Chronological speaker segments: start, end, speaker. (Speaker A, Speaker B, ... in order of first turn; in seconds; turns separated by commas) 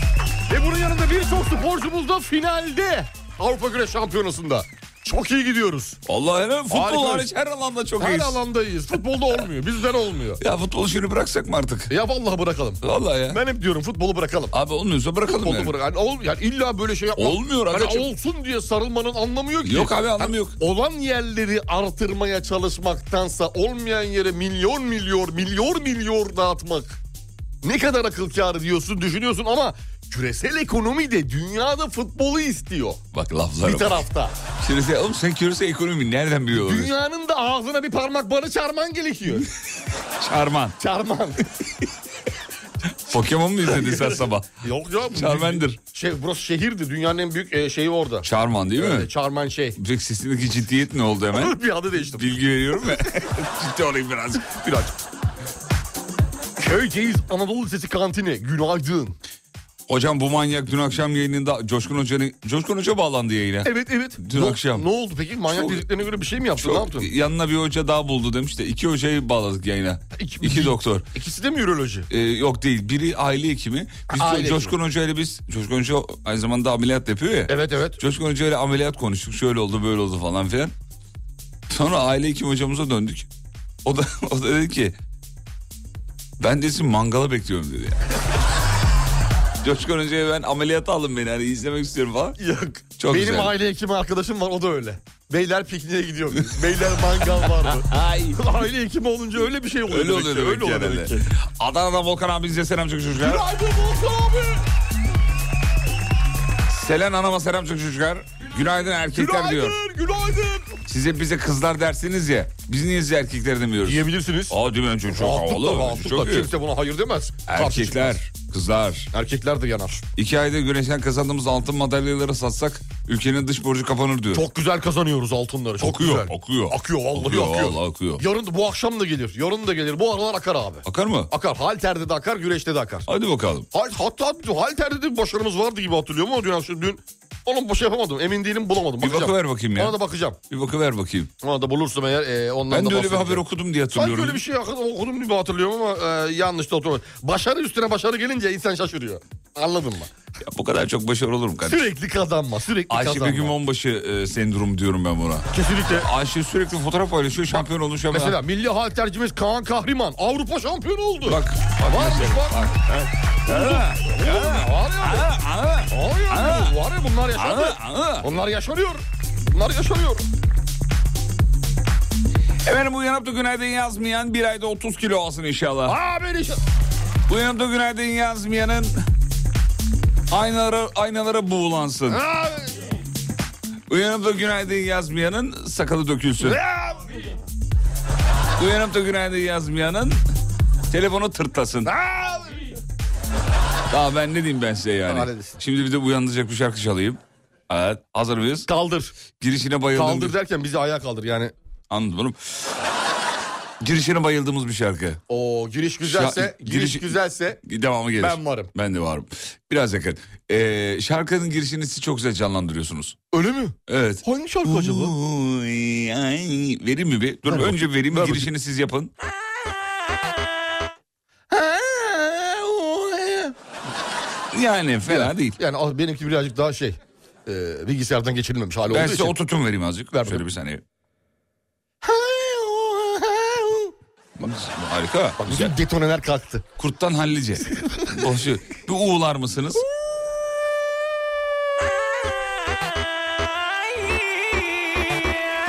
Speaker A: 0.5-6.0, Speaker B: 6.0-8.4, Speaker A: 6.7-7.3, Speaker A: 8.0-10.4, Speaker B: 10.4-11.9, Speaker A: 11.9-14.5, Speaker B: 12.8-13.4, Speaker B: 14.5-15.8, Speaker A: 15.2-27.0, Speaker B: 17.2-18.1, Speaker B: 19.6-20.6, Speaker A: 27.6-33.0, Speaker B: 33.1-34.0, Speaker A: 33.6-34.3, Speaker B: 34.6-36.9, Speaker A: 36.5-39.5, Speaker B: 40.2-40.8, Speaker A: 40.8-41.4, Speaker B: 43.1-44.5, Speaker A: 43.7-49.8, Speaker B: 45.1-45.8, Speaker B: 48.2-49.1, Speaker B: 49.8-54.5, Speaker A: 51.3-53.2, Speaker A: 54.5-54.9, Speaker A: 56.6-59.2, Speaker B: 59.9-64.8, Speaker A: 63.6-67.1, Speaker B: 65.5-65.9, Speaker B: 66.6-71.1, Speaker A: 70.2-72.1, Speaker B: 72.1-80.7, Speaker A: 74.1-74.7, Speaker A: 77.5-78.0, Speaker B: 81.7-83.3, Speaker B: 83.8-85.0, Speaker B: 86.4-88.0, Speaker B: 89.6-92.4, Speaker A: 92.4-101.2, Speaker B: 93.0-93.5, Speaker B: 97.4-98.4, Speaker B: 99.9-103.5, Speaker A: 103.2-104.6, Speaker B: 106.7-109.8, Speaker A: 109.1-110.8, Speaker B: 110.9-116.5, Speaker A: 113.8-114.5, Speaker A: 115.1-118.2, Speaker B: 117.5-119.1, Speaker A: 119.1-120.1, Speaker B: 120.2-124.4, Speaker A: 124.3-133.1, Speaker B: 125.8-128.2, Speaker B: 130.8-131.3, Speaker B: 133.1-133.7, Speaker A: 133.7-140.4, Speaker B: 139.0-140.0, Speaker B: 140.5-141.3, Speaker A: 141.4-143.4, Speaker B: 142.7-144.4, Speaker A: 143.9-150.1, Speaker B: 150.4-151.8, Speaker A: 151.7-153.5, Speaker B: 152.9-158.4, Speaker A: 155.5-156.1, Speaker A: 158.1-165.3, Speaker B: 161.2-162.9, Speaker B: 163.4-166.8, Speaker A: 165.9-170.2, Speaker B: 167.3-168.3, Speaker B: 172.6-176.0, Speaker A: 175.8-176.6, Speaker B: 177.3-178.9, Speaker B: 180.3-182.2, Speaker A: 182.1-182.7, Speaker B: 183.9-186.6, Speaker A: 186.4-187.1, Speaker B: 188.6-190.2, Speaker B: 190.9-191.9, Speaker A: 191.8-192.6, Speaker B: 193.9-198.7, Speaker A: 195.1-195.6, Speaker A: 198.7-199.1, Speaker B: 199.4-200.4, Speaker A: 199.9-201.5, Speaker B: 201.9-202.4, Speaker B: 203.8-205.2, Speaker A: 205.3-207.6, Speaker B: 206.0-213.2, Speaker A: 208.2-208.7, Speaker A: 213.3-215.1, Speaker B: 213.9-219.1, Speaker A: 217.5-218.5, Speaker A: 221.5-223.5, Speaker B: 224.5-225.6, Speaker A: 225.1-229.3, Speaker B: 228.9-230.8, Speaker A: 230.1-230.4, Speaker A: 232.0-233.9, Speaker B: 234.4-235.7, Speaker A: 235.4-236.6, Speaker B: 236.8-239.8, Speaker A: 237.8-238.1